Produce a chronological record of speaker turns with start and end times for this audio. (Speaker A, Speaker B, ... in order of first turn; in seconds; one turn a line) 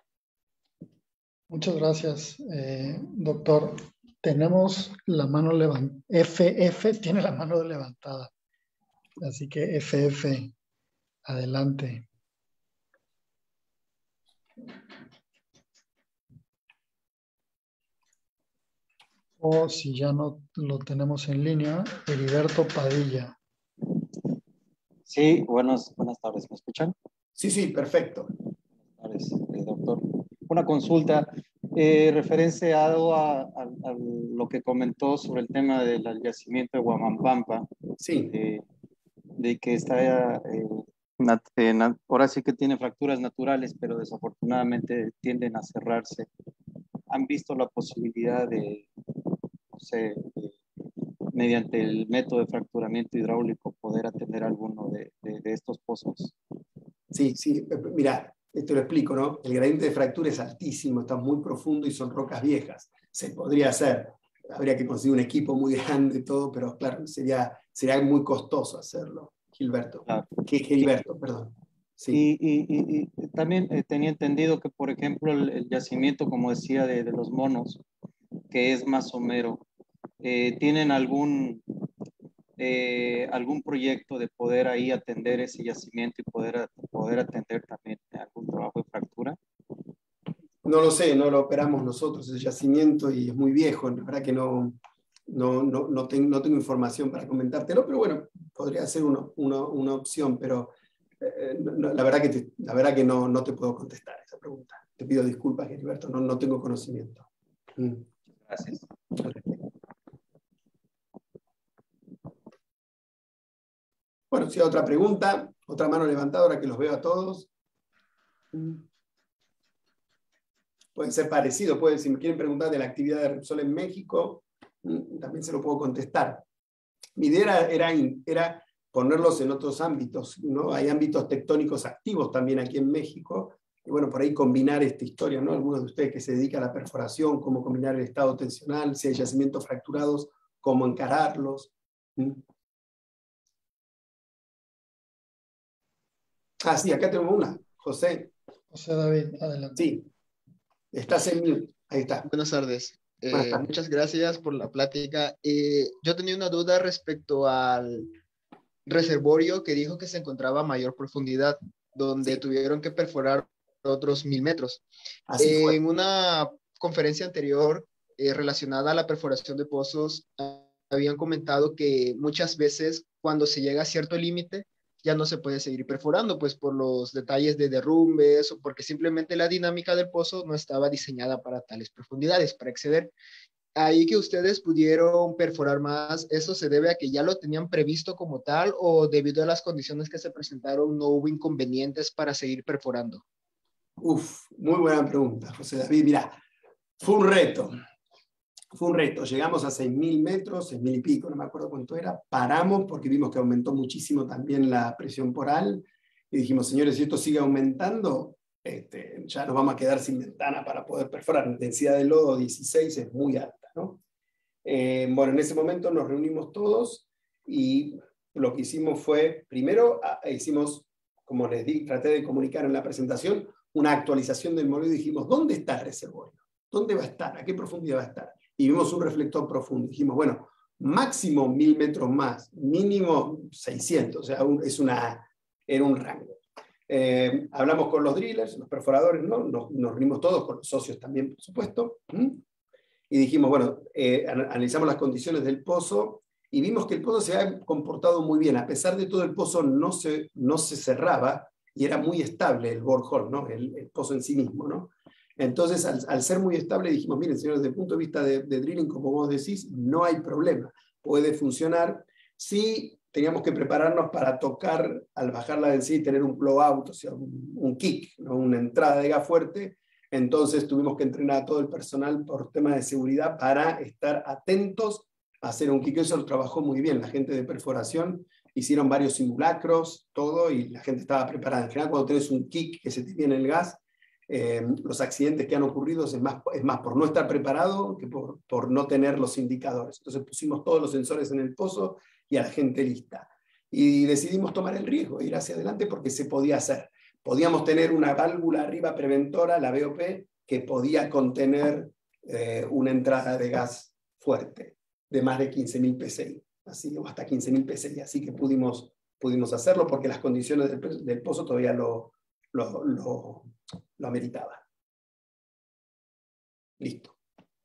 Speaker A: 1.5-8.3
Speaker A: 9.2-10.5
Speaker A: 11.3-12.1
Speaker A: 19.4-23.4
Speaker B: 25.1-26.9
Speaker C: 27.4-28.3
Speaker B: 28.9-38.6
Speaker C: 38.0-38.3
Speaker B: 39.4-46.3
Speaker B: 47.1-48.9
Speaker B: 49.7-50.6
Speaker B: 51.3-56.4
Speaker C: 57.1-72.2
Speaker B: 72.1-77.8
Speaker B: 78.5-79.7
Speaker B: 80.2-81.6
Speaker B: 82.6-89.4
Speaker C: 90.6-94.8
Speaker C: 95.3-108.1
Speaker C: 109.2-109.5
Speaker C: 114.3-117.5
Speaker C: 118.5-118.8
Speaker C: 121.0-126.4
Speaker C: 127.2-142.4
Speaker C: 146.6-148.3
Speaker A: 148.7-149.8
Speaker C: 149.8-150.1
Speaker C: 150.9-152.3
Speaker D: 152.2-158.1
Speaker C: 153.3-153.7
Speaker D: 158.9-164.8
Speaker C: 165.3-165.8
Speaker D: 165.4-183.1
Speaker D: 183.8-193.2
Speaker C: 194.0-196.4
Speaker C: 197.0-197.7
Speaker C: 198.7-214.0
Speaker C: 214.7-242.4
Speaker C: 243.1-314.6
Speaker C: 316.8-317.2